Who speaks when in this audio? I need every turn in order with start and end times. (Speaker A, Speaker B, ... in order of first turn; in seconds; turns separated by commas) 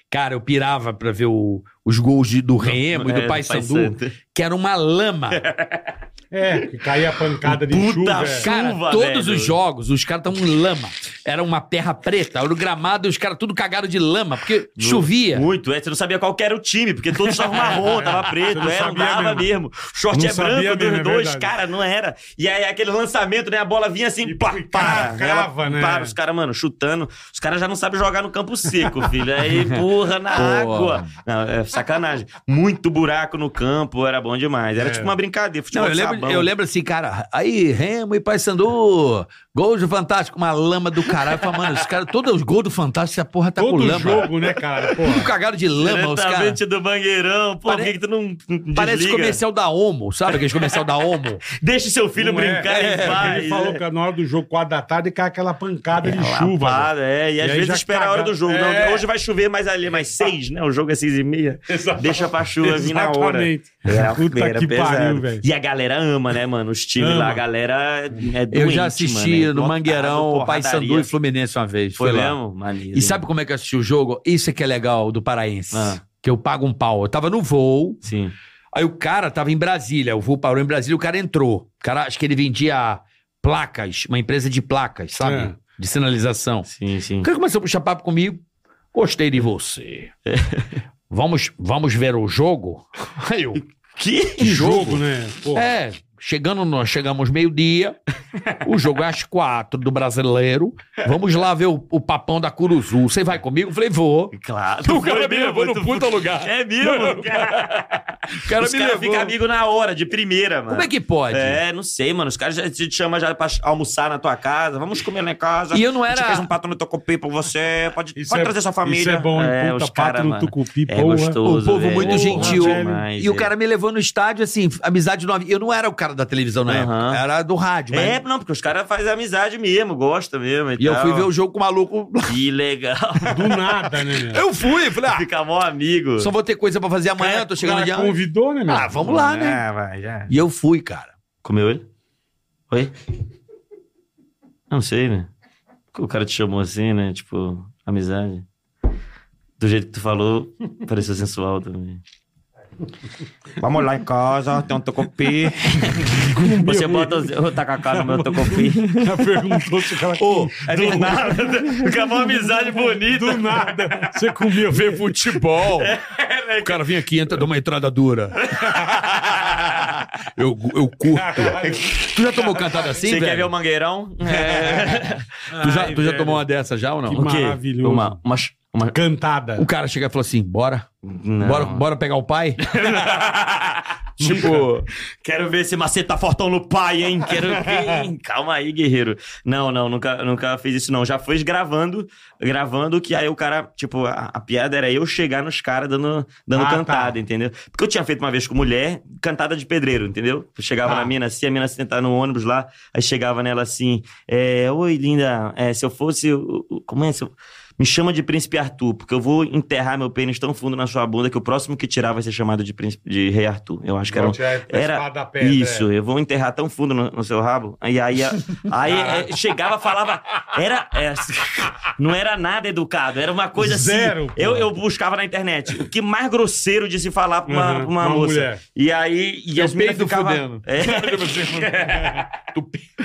Speaker A: 0.1-5.4, Speaker B: 2.6-4.2, Speaker B: 5.3-6.0, Speaker C: 6.3-8.5, Speaker B: 7.3-9.6, Speaker A: 8.4-15.5, Speaker B: 14.8-36.5, Speaker C: 17.8-19.5, Speaker C: 20.1-21.5, Speaker C: 24.2-26.1, Speaker A: 29.5-29.8, Speaker A: 30.4-31.1, Speaker C: 34.8-35.2, Speaker A: 35.7-44.3, Speaker B: 41.3-41.9, Speaker C: 43.6-45.3, Speaker A: 45.0-46.6, Speaker B: 45.8-49.4, Speaker A: 47.7-48.0, Speaker A: 48.7-51.4, Speaker B: 50.3-50.8, Speaker B: 51.5-53.8, Speaker C: 52.2-59.1, Speaker A: 52.7-53.4, Speaker B: 56.0-71.1, Speaker C: 61.7-65.4, Speaker C: 67.0-67.4, Speaker A: 68.5-72.4, Speaker B: 72.0-73.2, Speaker A: 72.9-78.0, Speaker B: 75.7-76.0, Speaker B: 78.0-78.3, Speaker A: 78.7-86.7, Speaker C: 85.2-85.5, Speaker B: 86.7-87.3, Speaker A: 87.2-90.1, Speaker B: 90.3-90.8, Speaker A: 91.1-93.6, Speaker B: 93.6-94.5, Speaker A: 94.4-95.0, Speaker C: 94.4-95.7, Speaker A: 95.5-98.0, Speaker A: 98.6-109.3, Speaker B: 104.3-123.5, Speaker A: 110.7-111.6, Speaker A: 115.7-116.5, Speaker C: 118.2-121.4, Speaker A: 121.4-128.2, Speaker C: 122.0-123.1, Speaker B: 126.7-127.2, Speaker B: 127.9-131.3, Speaker A: 130.8-132.4, Speaker B: 132.3-133.6, Speaker C: 133.3-134.5, Speaker A: 134.2-135.3, Speaker B: 135.1-136.3, Speaker A: 136.2-138.2, Speaker C: 137.2-139.0, Speaker A: 138.7-139.6, Speaker B: 139.0-140.3, Speaker A: 140.3-141.1, Speaker B: 141.4-141.8, Speaker B: 144.7-145.3, Speaker B: 145.9-148.5, Speaker B: 149.6-152.0, Speaker B: 153.6-159.0, Speaker C: 156.1-157.3, Speaker C: 157.9-161.5, Speaker A: 158.5-159.2, Speaker A: 160.1-162.0, Speaker B: 160.6-164.1, Speaker C: 163.1-165.8, Speaker A: 164.7-165.9, Speaker B: 165.8-167.0, Speaker A: 166.6-173.5, Speaker B: 168.5-169.9, Speaker C: 171.1-171.9, Speaker B: 171.6-172.1, Speaker B: 172.8-175.3, Speaker A: 174.3-177.3, Speaker C: 175.5-176.4, Speaker C: 177.1-178.2, Speaker B: 177.2-179.0, Speaker C: 178.9-179.7, Speaker A: 179.6-180.9, Speaker B: 181.0-181.8, Speaker A: 181.4-183.3, Speaker B: 182.6-184.6, Speaker A: 184.2-184.9, Speaker C: 184.2-184.6, Speaker B: 185.2-232.3, Speaker C: 196.5-197.2, Speaker C: 200.8-201.1, Speaker C: 214.1-215.9, Speaker C: 218.8-219.4, Speaker C: 223.6-224.7, Speaker C: 227.5-228.6, Speaker A: 229.6-232.9